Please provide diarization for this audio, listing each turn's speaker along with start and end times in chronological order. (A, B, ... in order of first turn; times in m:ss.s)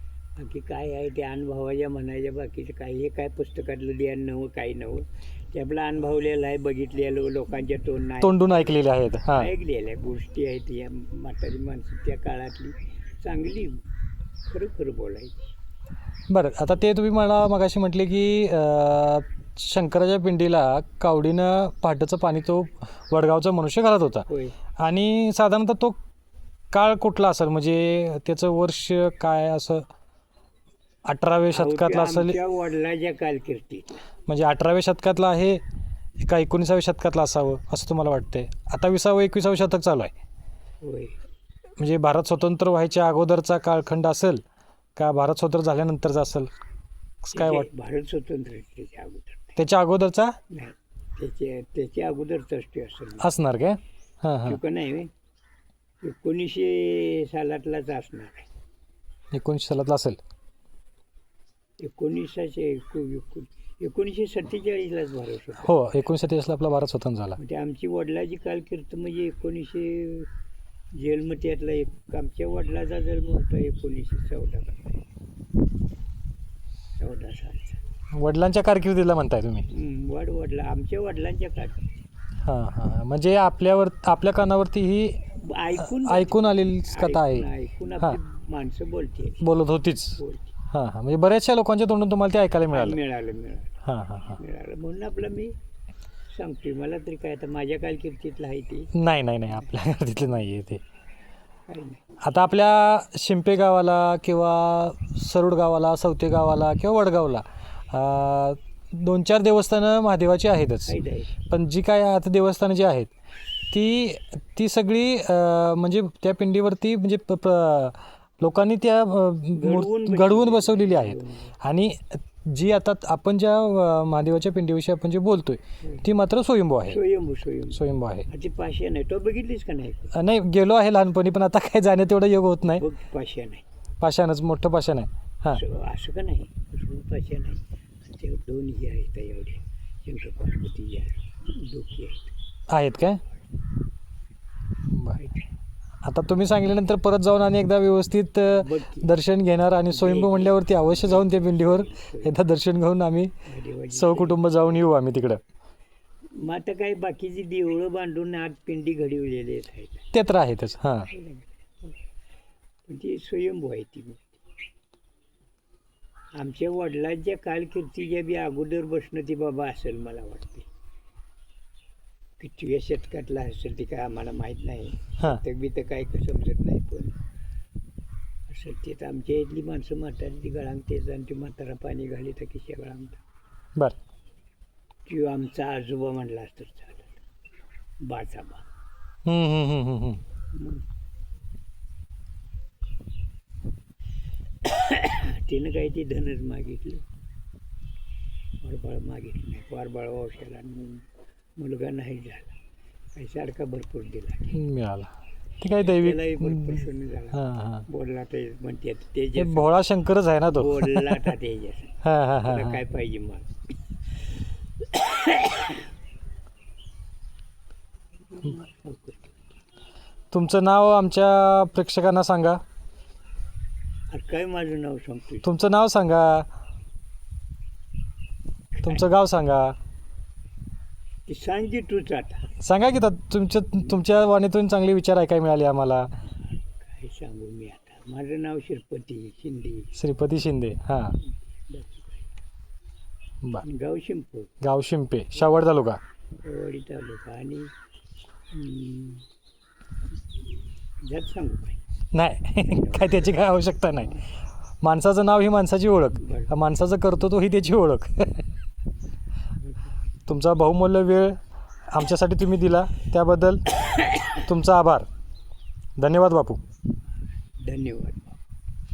0:00.4-0:13.8 A
0:08.2-0:09.5 B
0:14.5-0:15.4 A
0:16.3-0:24.2 B
0:24.3-0:24.6 A
0:24.8-0:26.0 B
0:26.7-0:29.9 B
0:31.0-0:32.4 B
0:31.5-0:34.0 A
0:34.3-0:35.6 B
0:36.2-0:40.1 B
0:40.8-0:41.2 A
0:41.8-0:44.4 B
0:45.0-0:46.5 B
0:47.2-0:47.7 B
0:47.3-0:49.6 A
0:49.6-0:50.4 B
0:50.5-0:53.3 A
0:53.2-0:54.6 B
0:54.4-0:55.1 A
0:56.0-0:58.5 A
0:59.3-1:00.2 B
1:01.8-1:05.8 A
1:05.6-1:07.4 B
1:07.4-1:10.3 A
1:10.9-1:15.0 A
1:17.0-1:17.8 A
1:18.1-1:19.6 B
1:19.7-1:21.9 A
1:22.4-1:25.2 B
1:25.4-1:29.4 A
1:25.9-1:27.5 B
1:29.4-1:30.2 B
1:30.1-1:30.5 A
1:30.7-1:33.0 B
1:32.7-1:33.8 A
1:33.8-1:34.4 B
1:34.4-1:35.6 A
1:36.3-1:38.9 A
1:38.9-1:40.8 B
1:41.7-1:42.0 A
1:42.2-1:50.9 B
1:50.8-1:51.3 A
1:51.5-1:53.1 B
1:53.7-2:07.0 B
1:59.5-2:01.5 A
2:06.8-2:10.1 A
2:07.7-2:08.3 B
2:10.1-2:12.8 B
2:12.7-2:13.6 A
2:14.0-2:15.6 B
2:15.5-2:22.3 A
2:22.7-2:23.2 B
2:24.9-2:25.2 B
2:25.2-2:25.4 A
2:26.0-2:33.3 B
2:28.5-2:29.1 A
2:29.9-2:32.3 A
2:33.4-2:34.9 A
2:33.9-2:35.4 B
2:36.4-2:40.1 A
2:40.1-2:41.1 B
2:41.1-2:41.9 A
2:42.9-2:44.4 A
2:46.3-2:50.7 A
2:52.4-2:57.2 A
2:58.5-3:03.2 A
3:05.0-3:07.1 A
3:08.0-3:08.6 A
3:09.2-3:10.2 B
3:10.5-3:10.8 A
3:14.6-3:17.0 A
3:18.6-3:21.0 A
3:21.6-3:22.6 A
3:23.1-3:24.6 A
3:24.5-3:27.8 B
3:25.8-3:29.7 A
3:29.4-3:31.3 B
3:30.5-3:33.5 A
3:32.0-3:32.8 B
3:34.8-3:35.9 A
3:38.3-3:39.3 A
3:40.3-3:42.6 B
3:44.1-3:45.5 A
3:45.4-3:46.5 B
3:48.8-3:49.8 B
3:51.3-3:52.5 A
3:52.6-3:56.1 B
3:56.8-3:59.9 A
4:00.0-4:01.2 B
4:01.7-4:02.2 A
4:03.6-4:04.5 A
4:04.6-4:06.0 B
4:06.4-4:07.7 A
4:08.5-4:09.2 A
4:11.0-4:11.8 A
4:12.1-4:14.2 B
4:12.6-4:13.4 A
4:13.9-4:14.2 A
4:14.8-4:18.5 B
4:16.2-4:16.5 A
4:20.3-4:21.4 B
4:21.9-4:23.6 B
4:23.8-4:24.3 A
4:24.3-4:25.0 B
4:26.0-4:26.6 B
4:27.6-4:28.4 A